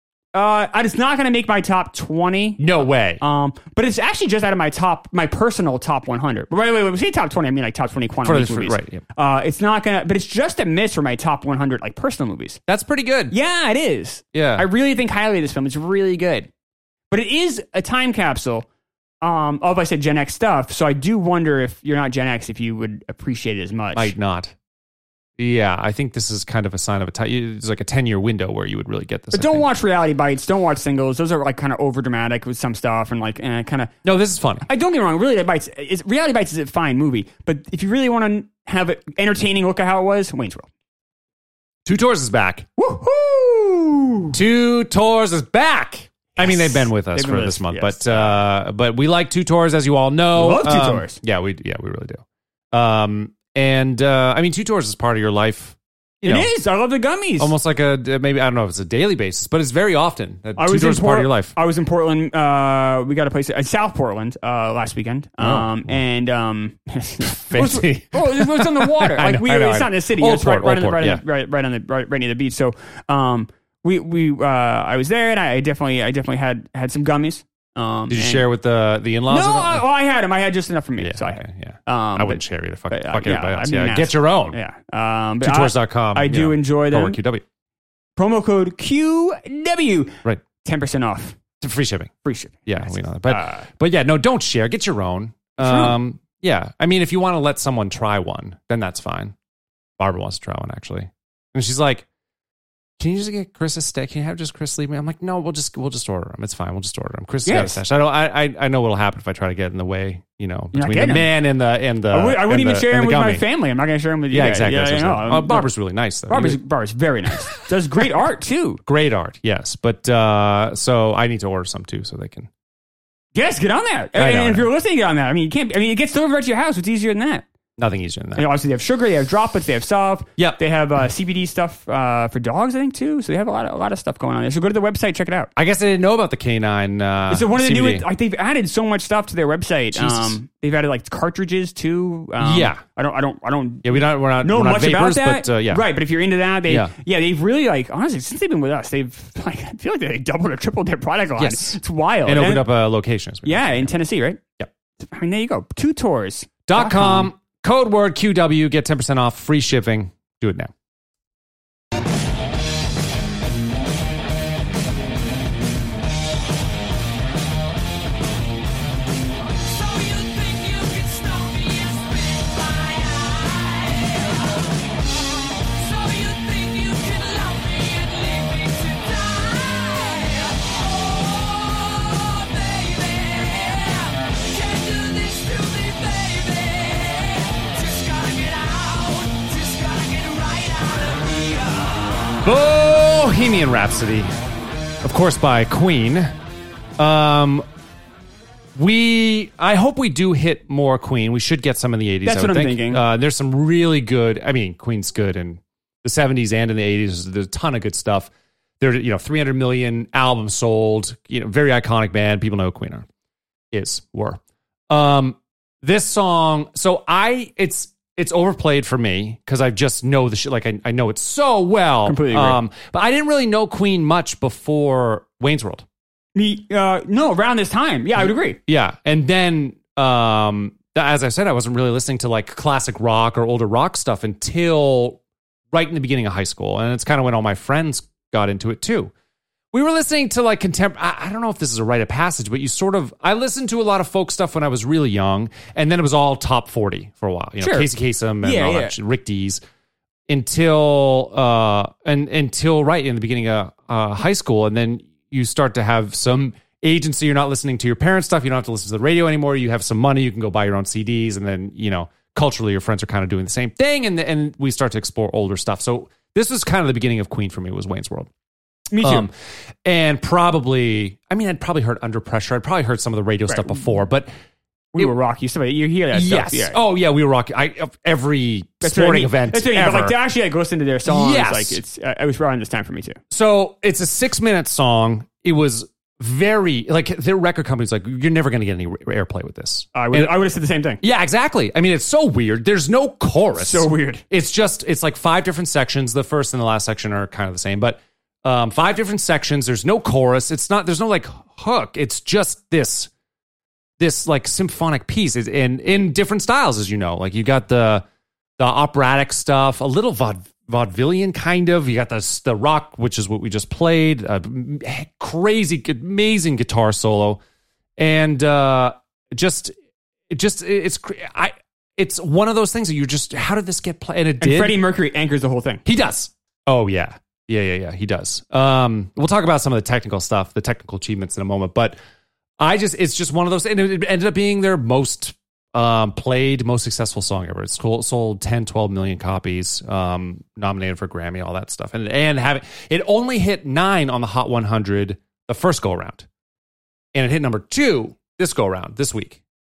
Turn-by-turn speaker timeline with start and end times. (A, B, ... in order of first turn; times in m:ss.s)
0:00.3-0:12.6 A
0:02.6-0:03.2 B
0:08.2-0:09.0 B
0:12.7-0:13.4 B
0:13.3-0:16.5 A
0:14.3-0:14.7 B
0:17.1-0:18.7 A
0:19.2-0:24.1 A
0:24.0-0:24.5 B
0:25.4-0:29.7 B
0:29.3-0:34.0 A
0:34.0-0:34.7 B
0:34.6-0:40.7 A
0:41.9-0:42.7 B
0:42.8-0:44.4 A
0:44.3-0:56.5 B
0:46.4-0:48.4 A
0:50.3-0:51.2 A
0:56.2-0:57.5 A
0:57.4-1:01.5 B
1:00.6-1:18.5 A
1:05.4-1:05.9 B
1:07.2-1:11.2 B
1:18.1-1:19.8 B
1:19.3-1:27.2 A
1:21.0-1:24.6 B
1:25.4-1:27.4 B
1:28.2-1:31.4 A
1:31.6-1:32.1 B
1:32.2-1:33.7 A
1:32.7-1:39.4 B
1:35.6-1:36.0 A
1:40.0-1:42.0 B
1:43.0-1:53.4 B
1:47.4-1:47.8 A
1:50.7-1:51.3 A
1:52.1-1:55.7 A
1:54.3-1:56.6 B
1:56.3-1:58.8 A
1:57.4-1:57.7 B
1:58.9-2:02.5 B
2:03.4-2:07.5 A
2:04.2-2:04.7 B
2:07.8-2:08.5 B
2:08.4-2:15.5 A
2:15.6-2:18.0 B
2:17.3-2:32.7 A
2:19.9-2:20.4 B
2:22.4-2:22.8 B
2:23.8-2:25.8 B
2:26.7-2:26.9 B
2:31.4-2:33.9 B
2:33.4-2:34.4 A
2:35.0-2:37.3 A
2:36.7-2:40.7 B
2:49.5-2:54.8 C
2:55.6-3:12.4 C
3:12.4-3:14.3 B
3:15.0-3:16.3 B
3:17.0-3:17.7 B
3:18.8-3:33.1 B
3:22.2-3:23.0 A
3:33.7-3:45.9 B
3:42.1-3:42.6 A
3:46.4-3:48.6 A
3:48.7-3:55.2 B
3:55.7-3:59.1 B
3:59.7-4:09.6 B
4:07.6-4:07.9 A
4:08.4-4:09.0 A
4:10.3-4:28.3 B
4:28.9-4:29.3 A
4:29.0-4:29.3 B
4:29.8-4:34.3 B
4:33.5-4:33.8 A
4:34.9-4:36.8 A
4:36.1-4:40.2 B
4:38.8-4:43.2 A
4:41.1-4:41.8 B
4:43.3-4:50.4 B
4:49.9-4:51.0 A
4:51.0-5:03.1 B
4:53.6-4:54.2 A
5:04.0-5:08.0 B
5:08.6-5:17.4 B
5:18.0-5:19.7 B
5:20.3-5:24.8 B
5:24.4-5:25.8 A
5:25.8-5:32.0 B
5:32.6-5:46.3 B
5:47.2-5:49.4 B